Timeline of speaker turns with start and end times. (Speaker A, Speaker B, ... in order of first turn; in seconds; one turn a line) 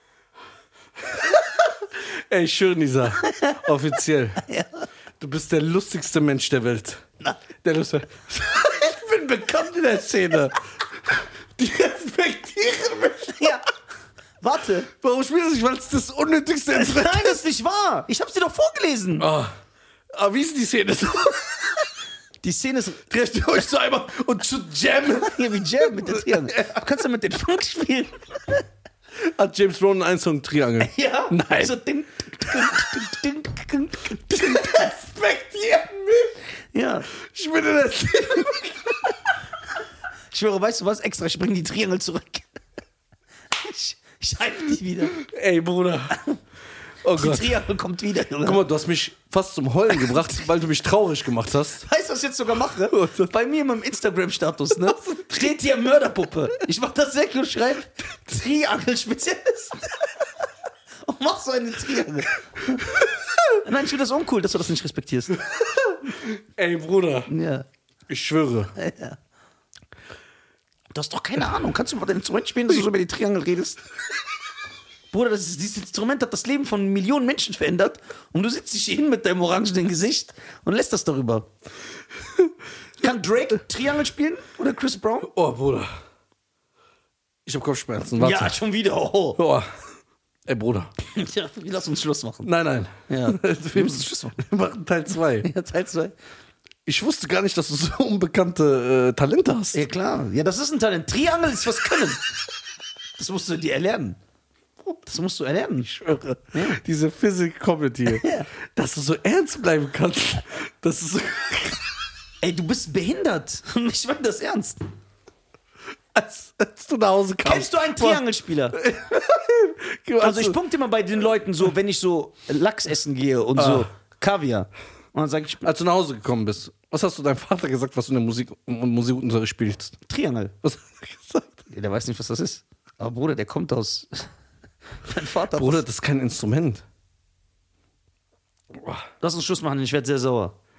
Speaker A: 1.0-4.5
Speaker B: 3.2-3.6
Speaker B: 4.4-4.8
Speaker A: 5.2-7.0
Speaker A: 7.6-13.6
Speaker B: 13.3-13.7
Speaker B: 14.4-14.9
Speaker A: 15.0-17.4
Speaker B: 16.7-19.3
Speaker A: 19.2-19.6
Speaker A: 20.1-21.8
Speaker B: 22.4-23.1
Speaker A: 23.1-26.8
Speaker B: 25.2-28.6
Speaker A: 29.2-31.8
Speaker B: 30.8-35.0
Speaker A: 32.5-33.0
Speaker A: 34.3-36.4
Speaker B: 36.7-37.1
Speaker A: 37.1-39.2
Speaker B: 40.3-42.5
Speaker B: 43.5-45.2
Speaker A: 45.1-46.2
Speaker B: 46.1-46.4
Speaker A: 47.0-47.6
Speaker B: 47.1-48.6
Speaker A: 48.4-51.9
Speaker B: 51.8-59.9
Speaker A: 52.9-53.3
Speaker A: 54.8-55.4
Speaker B: 61.1-63.0
Speaker A: 62.8-63.5
Speaker B: 63.6-65.5
Speaker A: 65.5-67.3
Speaker B: 67.3-67.7
Speaker A: 68.1-68.7
Speaker B: 68.8-69.2
Speaker B: 70.9-73.8
Speaker B: 75.1-81.5
Speaker B: 83.0-85.3
Speaker A: 85.3-85.9
Speaker A: 87.5-88.5
Speaker B: 88.2-89.4
Speaker A: 89.4-89.7
Speaker A: 90.5-90.9
Speaker B: 91.1-92.5
Speaker A: 92.4-95.5
Speaker B: 93.1-94.3
Speaker B: 95.4-96.2
Speaker A: 96.9-99.8
Speaker B: 99.7-102.2
Speaker B: 103.2-104.2
Speaker B: 105.0-105.9
Speaker A: 105.8-112.0
Speaker B: 106.5-106.8
Speaker B: 108.1-108.5
Speaker B: 112.4-114.8
Speaker A: 116.1-120.6
Speaker B: 117.4-118.8
Speaker B: 120.2-125.7
Speaker A: 123.6-123.9
Speaker A: 125.6-130.0
Speaker B: 130.1-130.5
Speaker A: 130.6-131.7
Speaker B: 131.7-134.3
Speaker B: 135.1-135.8
Speaker A: 135.5-136.8
Speaker A: 138.7-139.1
Speaker B: 139.2-140.6